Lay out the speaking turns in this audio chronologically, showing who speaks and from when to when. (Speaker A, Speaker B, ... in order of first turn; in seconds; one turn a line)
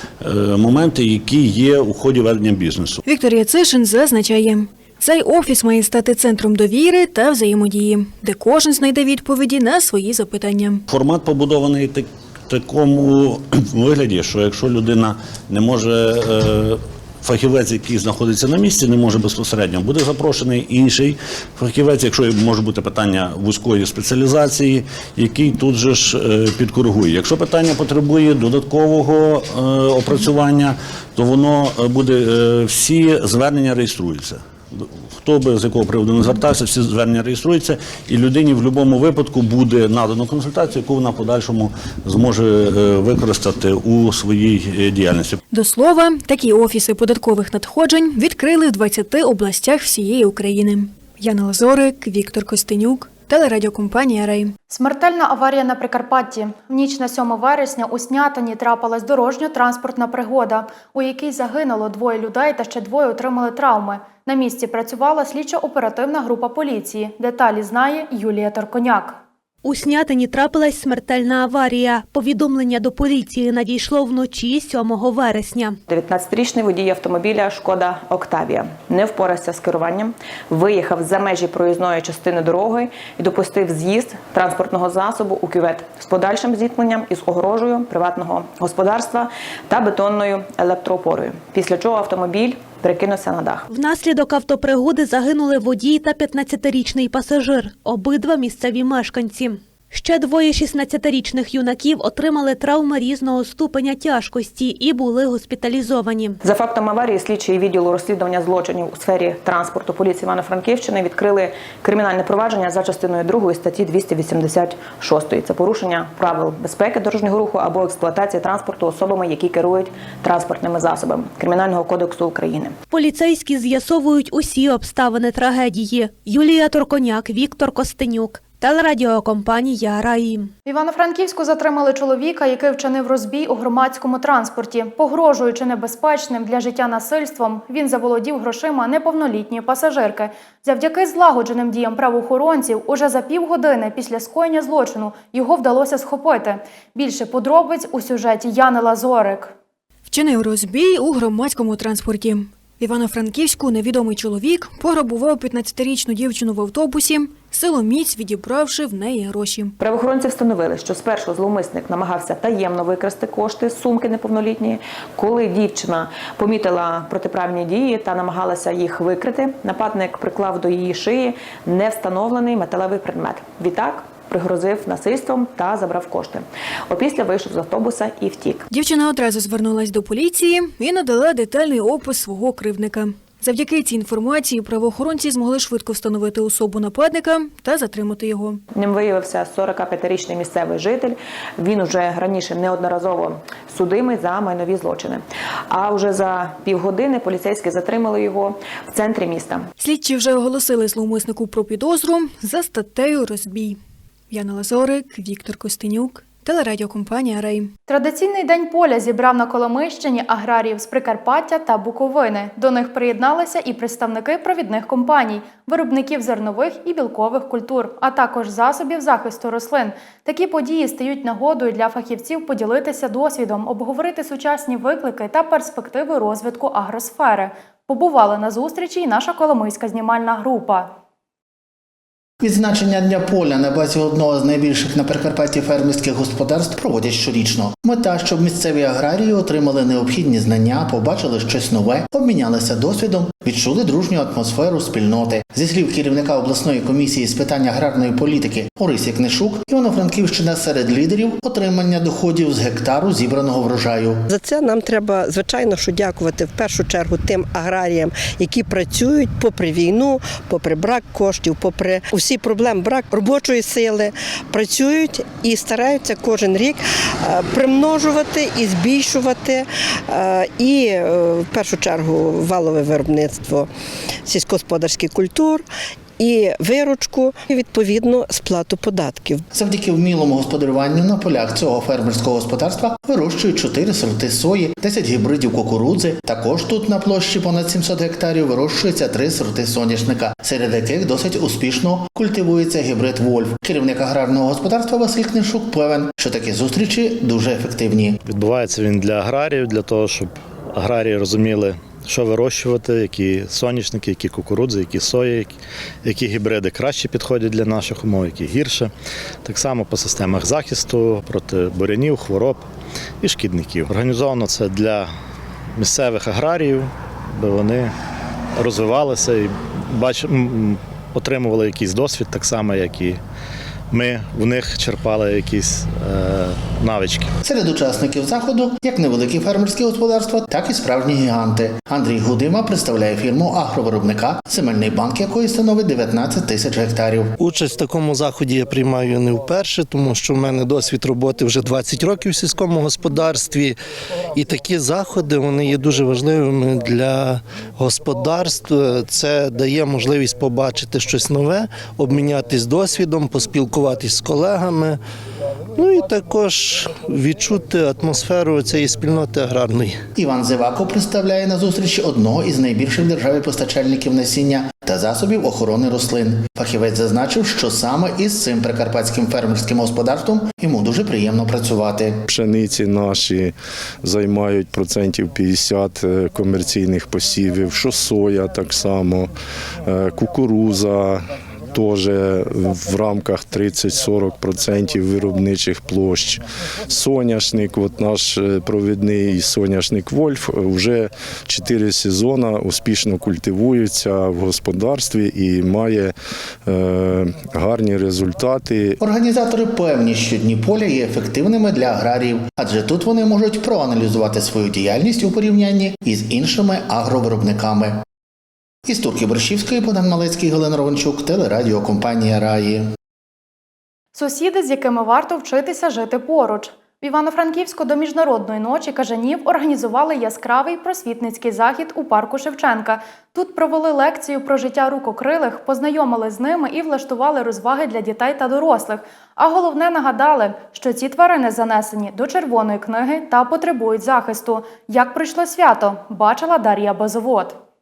Speaker A: 0.2-3.0
Speaker B: 3.0-10.8
Speaker A: 10.9-45.4
Speaker B: 45.5-54.5
Speaker C: 54.7-69.2
Speaker D: 69.6-75.8
Speaker E: 75.9-93.6
Speaker D: 93.7-106.4
Speaker E: 106.4-122.8
Speaker D: 122.9-130.5
Speaker C: 130.7-149.5
Speaker B: 150.1-159.7
Speaker E: 159.8-178.6
Speaker B: 178.7-188.6
Speaker E: 188.8-199.7
Speaker B: 199.8-203.8
Speaker B: 204.3-207.7
Speaker C: 207.9-230.9
Speaker F: 232.4-254.2
Speaker G: 254.4-266.8
Speaker E: 254.4-257.9
Speaker E: 258.5-259.6
Speaker E: 260.6-262.4
Speaker E: 263.4-263.6
Speaker E: 265.6-266.4
Speaker G: 267.3-269.6
Speaker E: 267.6-269.2
Speaker G: 270.1-273.7
Speaker E: 271.6-271.9
Speaker G: 274.3-275.6
Speaker E: 274.4-275.4
Speaker G: 276.2-279.4
Speaker E: 276.4-277.8
Speaker E: 278.3-279.3
Speaker F: 279.5-298.2
Speaker H: 298.2-308.9
Speaker H: 309.4-312.7
Speaker H: 313.2-315.1
Speaker H: 315.8-317.9
Speaker H: 318.6-323.2
Speaker H: 323.9-327.3
Speaker F: 327.4-337.3
Speaker I: 337.4-343.8
Speaker I: 344.4-355.0
Speaker I: 355.8-360.0
Speaker F: 360.2-372.2
Speaker J: 372.3-373.5
Speaker J: 374.0-379.3
Speaker J: 379.9-396.1
Speaker J: 396.7-399.0
Speaker F: 399.0-408.0
Speaker F: 408.9-412.9
Speaker C: 414.1-437.6